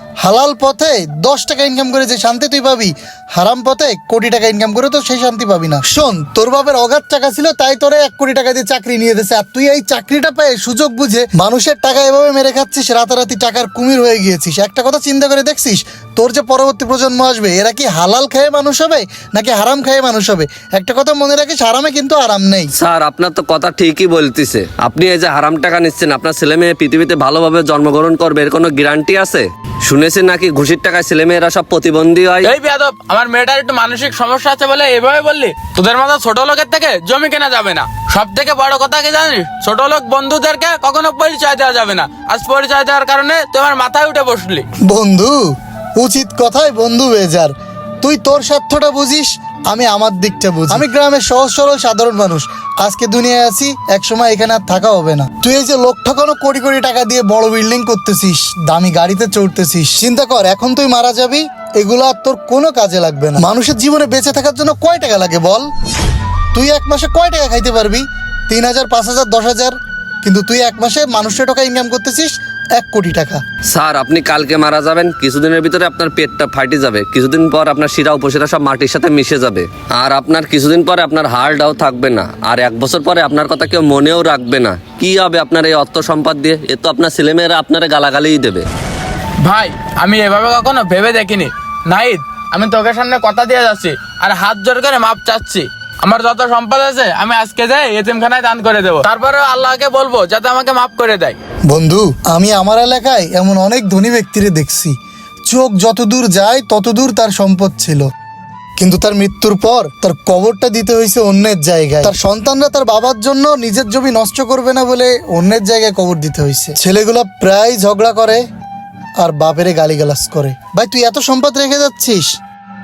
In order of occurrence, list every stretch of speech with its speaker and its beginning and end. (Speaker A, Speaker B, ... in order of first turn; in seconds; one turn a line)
Speaker A: 0.2-22.7
Speaker B: 22.8-32.5
Speaker C: 32.4-44.7
Speaker A: 44.9-65.7
Speaker A: 66.5-73.4
Speaker B: 73.7-88.7
Speaker C: 89.4-101.4
Speaker A: 101.7-104.9
Speaker A: 105.5-108.1
Speaker A: 108.8-118.4
Speaker A: 119.2-122.4